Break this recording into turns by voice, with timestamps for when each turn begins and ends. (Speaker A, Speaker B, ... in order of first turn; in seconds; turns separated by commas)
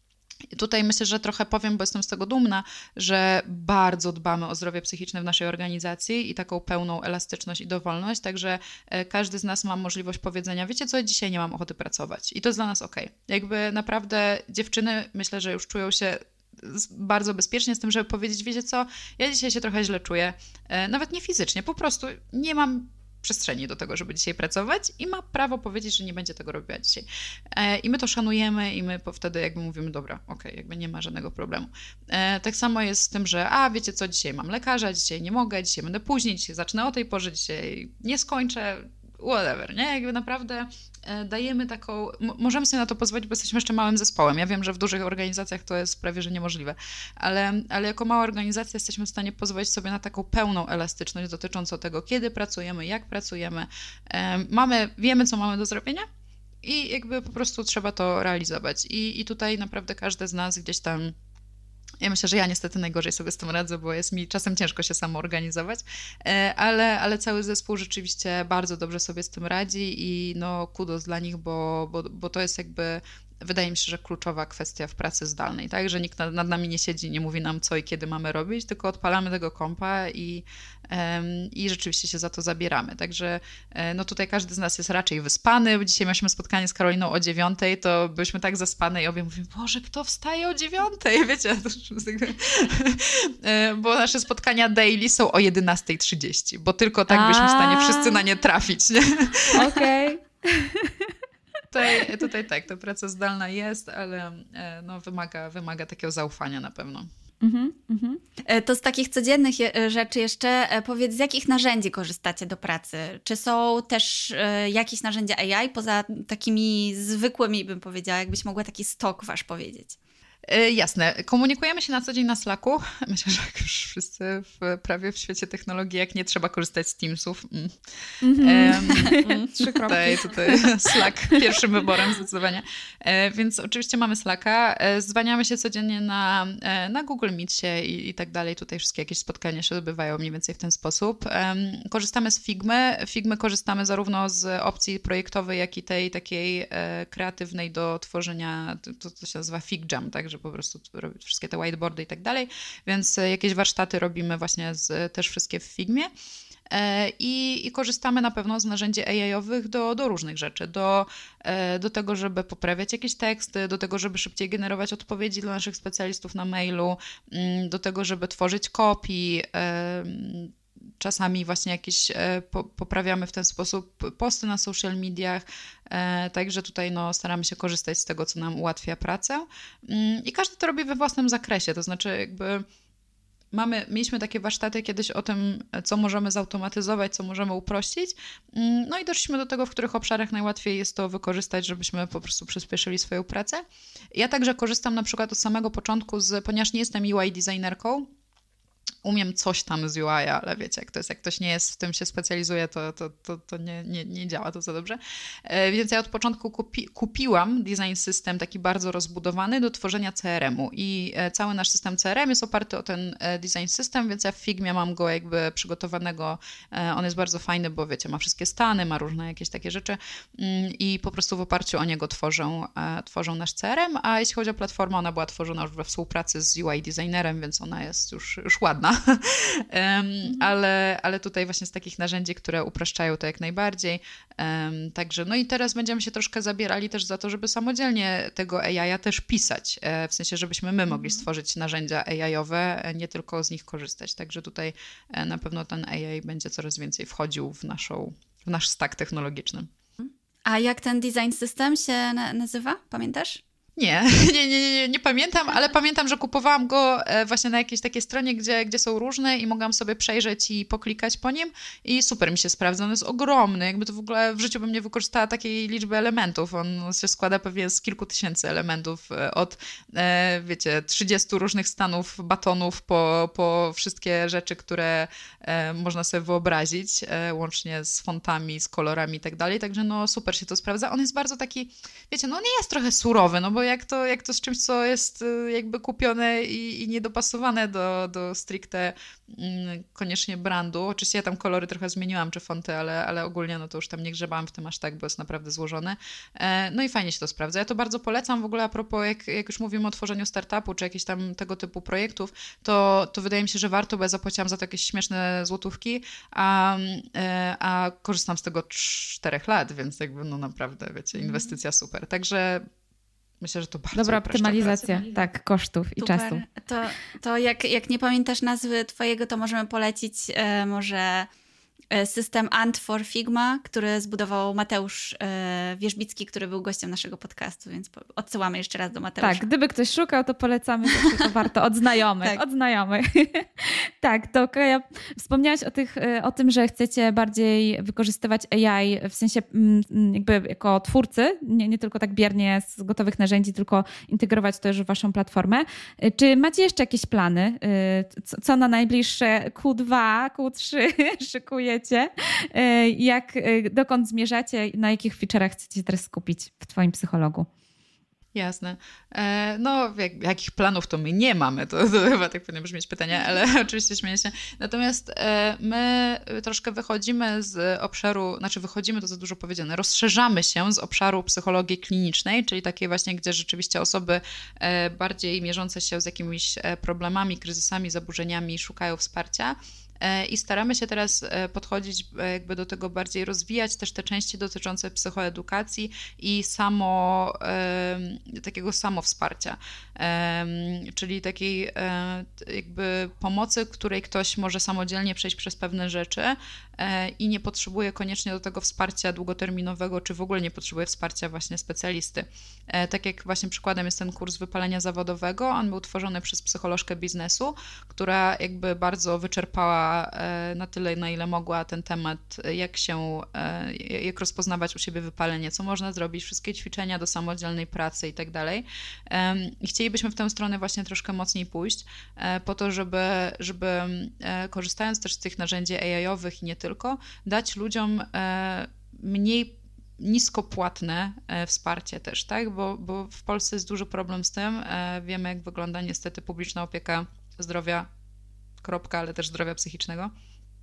Speaker A: 0.5-56.1, Speaker A: 56.6-61.1, Speaker A: 62.0-99.9, Speaker B: 97.1-98.2, Speaker B: 99.5-101.1, Speaker A: 101.7-107.1, Speaker B: 107.4-108.2, Speaker C: 108.4-120.0, Speaker A: 120.5-156.1, Speaker B: 128.2-131.6, Speaker C: 129.2-129.4, Speaker A: 156.7-182.6, Speaker A: 183.5-198.1, Speaker A: 199.0-249.7, Speaker C: 250.0-253.4, Speaker A: 253.8-312.7, Speaker A: 313.4-315.0, Speaker B: 313.9-316.4, Speaker C: 314.8-315.2, Speaker C: 316.0-321.3, Speaker C: 321.9-329.5, Speaker B: 329.2-357.5, Speaker C: 331.0-331.2, Speaker A: 358.3-437.9, Speaker A: 438.6-440.1